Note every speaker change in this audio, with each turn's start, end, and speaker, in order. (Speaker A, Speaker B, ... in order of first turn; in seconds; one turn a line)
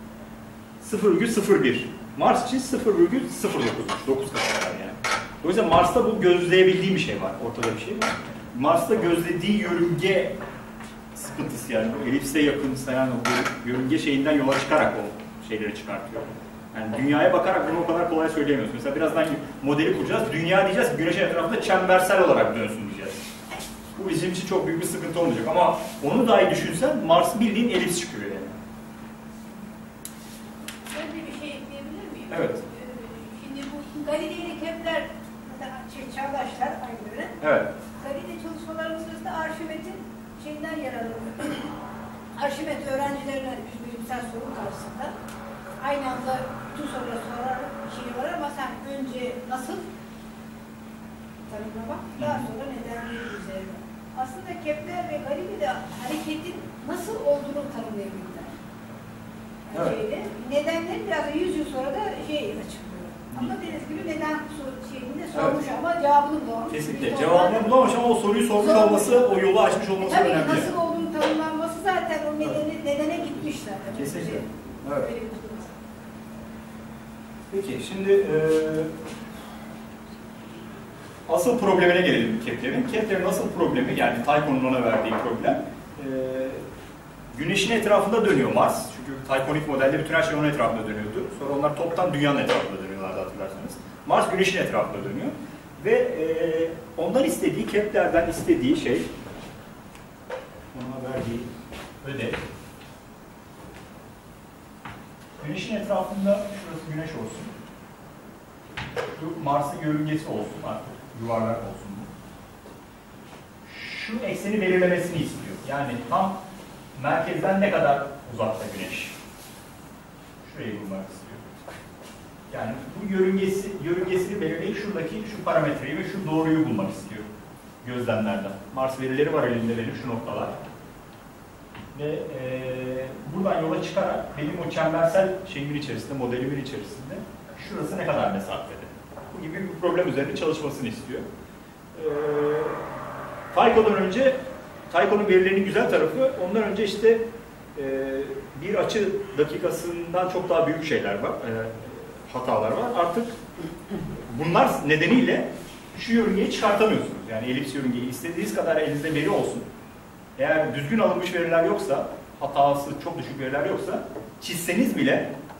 Speaker A: 0.8-10.3
Speaker A: 11.1-23.2
Speaker A: 23.9-28.6
Speaker B: 30.9-37.3
Speaker A: 32.3-32.6
Speaker A: 37.4-37.7
Speaker B: 38.0-41.7
Speaker B: 42.3-45.1
Speaker B: 45.8-49.8
Speaker B: 51.5-58.5
Speaker B: 59.7-67.7
Speaker A: 59.7-60.0
Speaker A: 63.3-63.6
Speaker A: 65.3-65.6
Speaker A: 66.7-70.7
Speaker B: 68.6-69.4
Speaker B: 70.0-75.8
Speaker A: 73.9-75.1
Speaker A: 77.5-78.9
Speaker A: 81.3-86.6
Speaker A: 87.3-99.1
Speaker A: 100.7-101.5
Speaker A: 102.0-102.4
Speaker A: 105.4-107.5
Speaker A: 109.1-112.1
Speaker A: 113.6-116.4
Speaker A: 116.9-119.2
Speaker A: 120.4-121.4
Speaker A: 122.5-127.3
Speaker A: 127.8-130.6
Speaker A: 131.9-141.2
Speaker A: 141.9-142.9
Speaker A: 143.5-144.4
Speaker A: 144.9-147.2
Speaker A: 147.7-159.6
Speaker A: 160.4-165.3